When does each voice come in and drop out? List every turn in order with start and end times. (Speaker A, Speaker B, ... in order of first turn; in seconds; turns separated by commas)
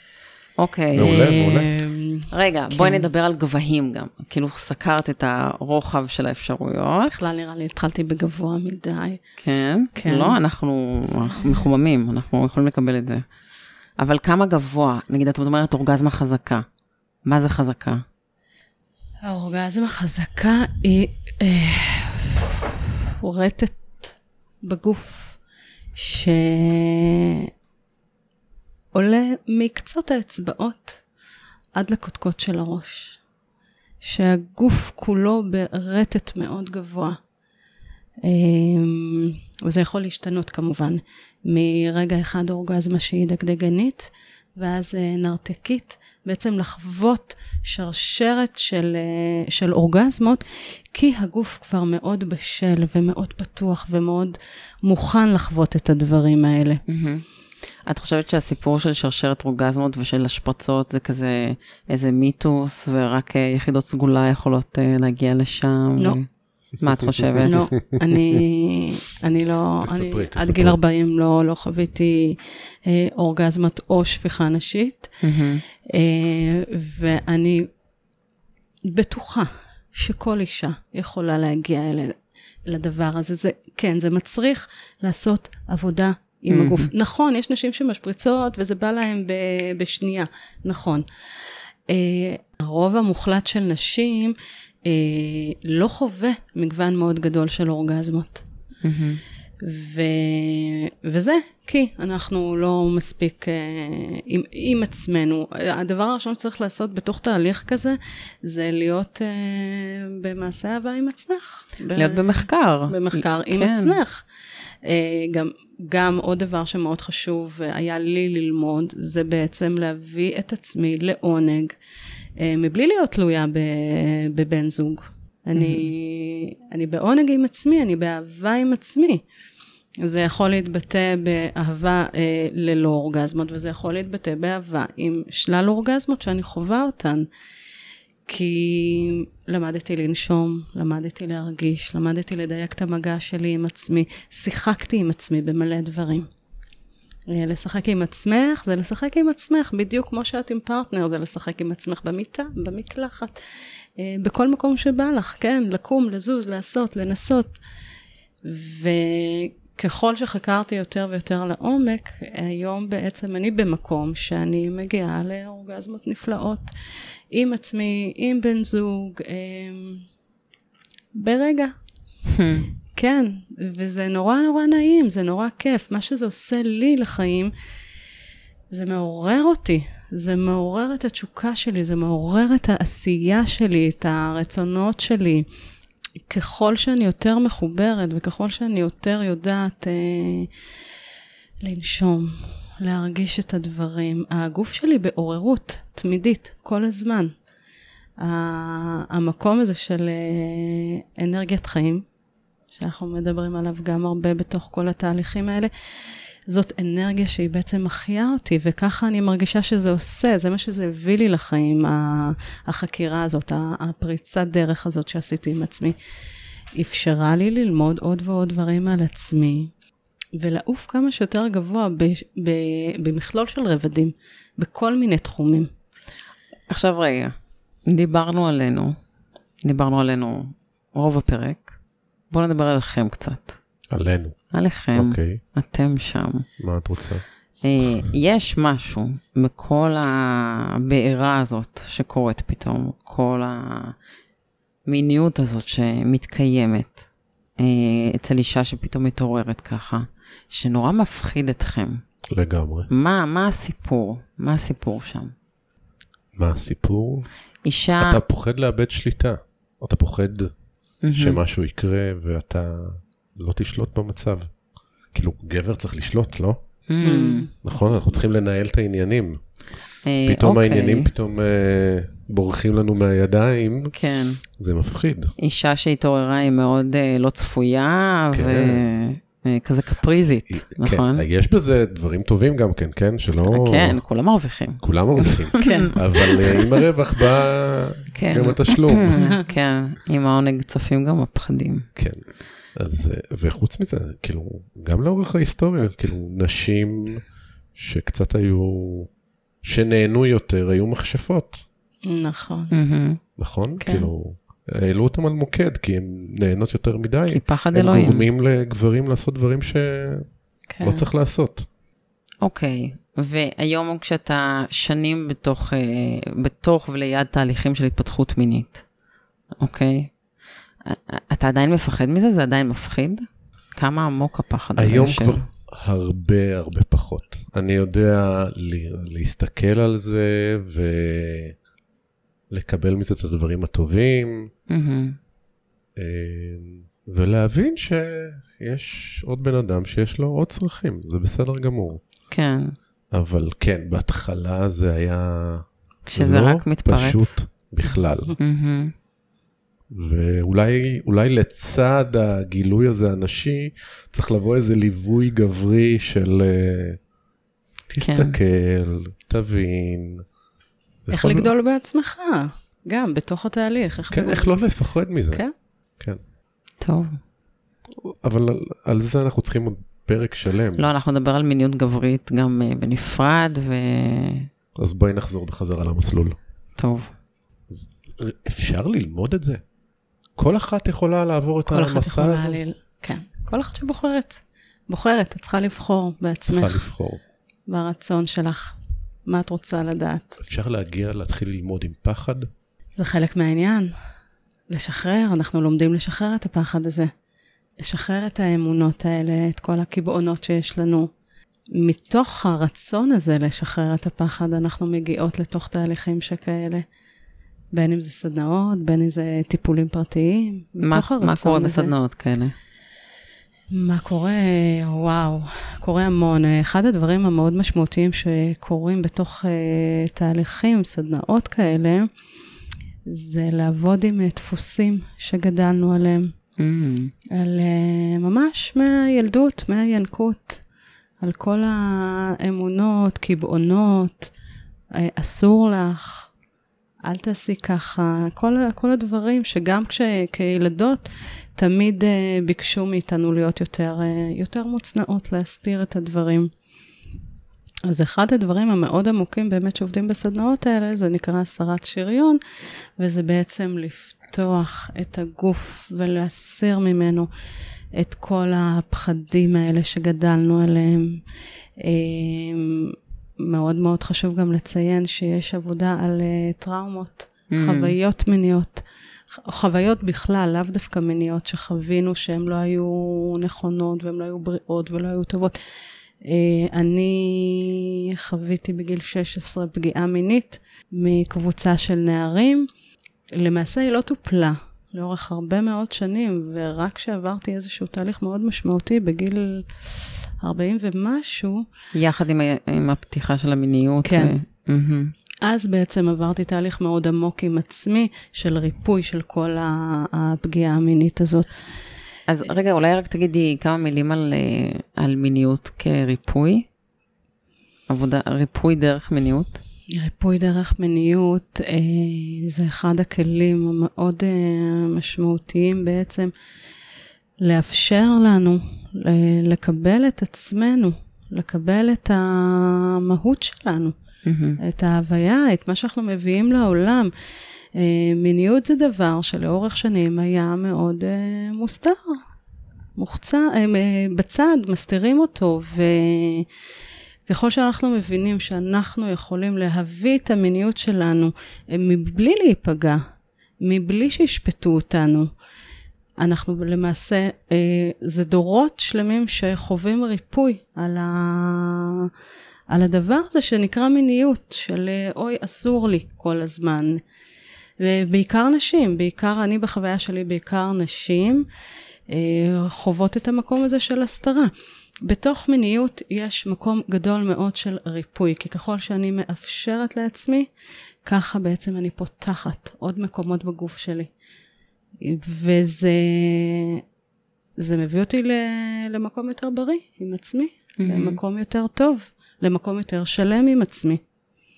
Speaker A: 0.6-1.3, Speaker B: 1.0-1.7, Speaker C: 1.0-3.1, Speaker A: 2.3-7.2, Speaker C: 7.1-9.2, Speaker A: 9.4-13.2, Speaker C: 9.9-10.4, Speaker C: 11.1-11.7, Speaker A: 14.0-16.6, Speaker A: 17.3-18.0, Speaker C: 19.2-25.4, Speaker C: 26.0-27.5, Speaker C: 28.9-31.0, Speaker C: 31.8-33.2, Speaker C: 34.0-37.2, Speaker C: 38.2-56.8, Speaker A: 56.9-57.2, Speaker A: 57.9-66.3, Speaker B: 66.8-68.4, Speaker A: 66.8-67.7, Speaker C: 67.4-75.2, Speaker B: 69.8-70.8, Speaker A: 75.2-75.6, Speaker C: 75.9-77.7, Speaker C: 78.8-91.1, Speaker A: 86.5-86.9, Speaker C: 91.9-98.4, Speaker A: 98.8-99.2, Speaker C: 99.6-114.2, Speaker A: 112.0-114.0, Speaker C: 114.8-121.8, Speaker C: 122.4-129.2, Speaker A: 125.6-125.9, Speaker C: 130.0-137.3, Speaker C: 138.3-146.3, Speaker C: 147.3-153.4, Speaker C: 154.0-157.6, Speaker C: 158.4-166.7, Speaker C: 167.3-170.1, Speaker C: 171.2-171.8, Speaker A: 172.3-172.7, Speaker C: 172.9-177.5, Speaker C: 178.7-185.4, Speaker C: 186.3-190.5, Speaker C: 191.6-197.3, Speaker C: 198.2-202.1, Speaker C: 202.7-216.0, Speaker C: 216.8-219.7, Speaker C: 220.3-225.7, Speaker A: 226.7-227.3, Speaker A: 227.9-229.0, Speaker A: 229.6-231.8, Speaker A: 232.3-233.6, Speaker B: 233.9-235.4, Speaker A: 234.5-236.5, Speaker B: 236.6-237.2, Speaker A: 237.6-243.9, Speaker A: 244.9-247.1, Speaker A: 247.6-252.0, Speaker B: 252.3-252.9, Speaker A: 252.9-255.3, Speaker B: 256.4-257.3, Speaker A: 257.6-258.2, Speaker B: 258.0-260.6, Speaker A: 261.0-261.4, Speaker B: 261.1-264.6, Speaker B: 265.1-266.7, Speaker A: 266.9-267.5, Speaker C: 267.0-267.5, Speaker B: 267.6-269.5, Speaker A: 270.0-271.1, Speaker B: 270.2-273.9, Speaker A: 273.9-274.4, Speaker B: 274.6-275.3, Speaker A: 275.4-281.2, Speaker B: 278.3-278.9, Speaker B: 280.5-284.0, Speaker A: 283.5-286.7, Speaker B: 284.8-289.2, Speaker C: 285.6-285.9, Speaker A: 288.1-291.9, Speaker B: 292.0-299.1, Speaker B: 299.6-301.6, Speaker C: 302.1-302.7, Speaker A: 302.7-303.2, Speaker B: 303.4-310.3, Speaker C: 303.8-304.1, Speaker A: 307.3-308.3, Speaker C: 310.7-311.1, Speaker B: 310.8-311.6, Speaker A: 312.4-318.9, Speaker A: 319.6-320.1, Speaker A: 320.9-325.5, Speaker B: 324.8-331.6, Speaker B: 332.5-334.5, Speaker A: 334.7-335.2, Speaker B: 336.0-342.0, Speaker A: 342.3-342.8, Speaker B: 343.1-348.4, Speaker A: 346.1-347.4, Speaker A: 348.4-348.9, Speaker B: 349.9-357.0, Speaker B: 357.9-360.3, Speaker A: 358.0-358.4, Speaker B: 361.1-361.5, Speaker C: 361.1-364.7, Speaker B: 364.1-365.4, Speaker A: 366.8-367.2, Speaker B: 367.9-370.9, Speaker A: 370.8-374.5, Speaker B: 374.8-376.4, Speaker A: 376.8-377.1, Speaker B: 377.7-379.6, Speaker B: 380.4-382.6, Speaker C: 381.7-386.9, Speaker B: 386.5-387.2, Speaker C: 387.7-390.4, Speaker B: 390.4-392.5, Speaker C: 393.0-393.9, Speaker C: 394.7-397.1, Speaker C: 397.8-401.1, Speaker C: 401.7-406.9, Speaker C: 407.7-411.9, Speaker A: 410.8-412.6, Speaker C: 413.7-422.1, Speaker C: 423.1-426.3, Speaker A: 426.6-427.1, Speaker C: 427.3-430.6, Speaker C: 431.2-434.3, Speaker C: 434.9-436.3, Speaker C: 437.0-446.5, Speaker C: 447.9-452.4, Speaker C: 453.0-457.3, Speaker C: 457.9-461.2, Speaker C: 461.8-475.6, Speaker A: 467.5-468.0, Speaker C: 476.2-482.7, Speaker C: 483.3-491.6, Speaker A: 491.9-495.1, Speaker C: 494.0-494.3, Speaker C: 495.4-501.5, Speaker A: 502.3-506.7, Speaker A: 507.9-509.6, Speaker C: 509.9-516.3, Speaker C: 517.4-523.9, Speaker A: 524.2-524.6, Speaker C: 524.6-527.1, Speaker C: 527.8-532.2, Speaker C: 533.0-536.5, Speaker C: 537.3-543.0, Speaker C: 543.6-545.3, Speaker C: 546.2-552.1, Speaker C: 552.7-557.0, Speaker C: 557.8-561.5, Speaker C: 562.1-564.5, Speaker C: 565.0-570.5, Speaker C: 571.0-574.1, Speaker C: 575.0-576.8, Speaker C: 577.6-584.0, Speaker A: 580.8-581.2